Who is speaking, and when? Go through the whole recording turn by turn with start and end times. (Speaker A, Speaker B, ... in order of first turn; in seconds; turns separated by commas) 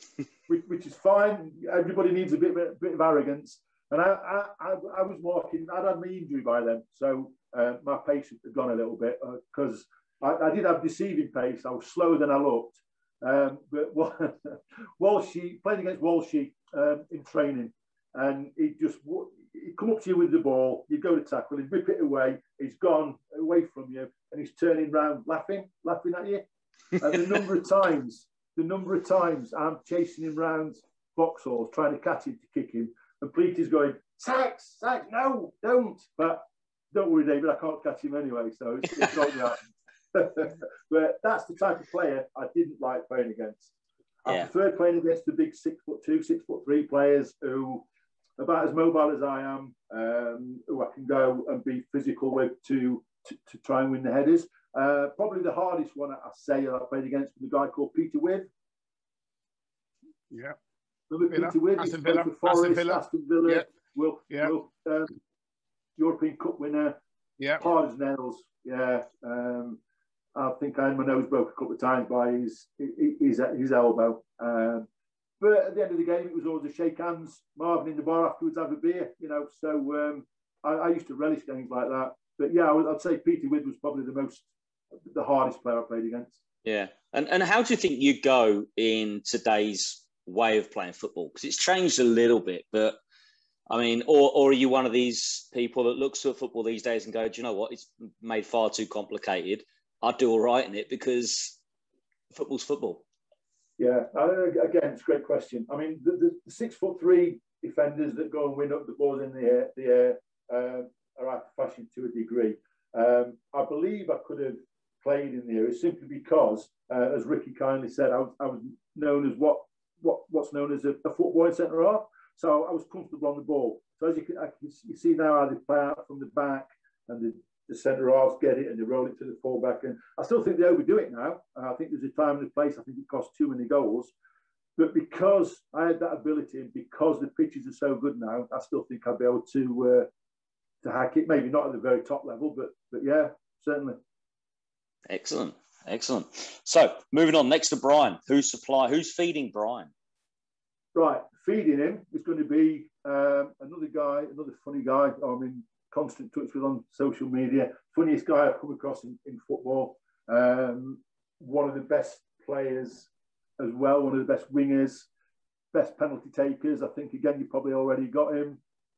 Speaker A: 0.5-26.4, Speaker A: 27.0-43.7, Speaker A: 44.2-47.8, Speaker A: 48.4-58.5, Speaker B: 60.3-60.5, Speaker A: 61.1-65.2, Speaker B: 61.3-63.6, Speaker A: 66.0-67.0, Speaker A: 67.6-69.8, Speaker A: 70.3-74.9, Speaker A: 75.4-84.5, Speaker A: 85.0-86.4, Speaker C: 86.6-93.0, Speaker C: 93.7-101.6, Speaker C: 102.3-103.0, Speaker A: 103.8-134.1, Speaker A: 134.8-140.1, Speaker A: 140.8-144.0, Speaker C: 145.1-149.9, Speaker A: 150.9-165.1, Speaker A: 165.7-168.6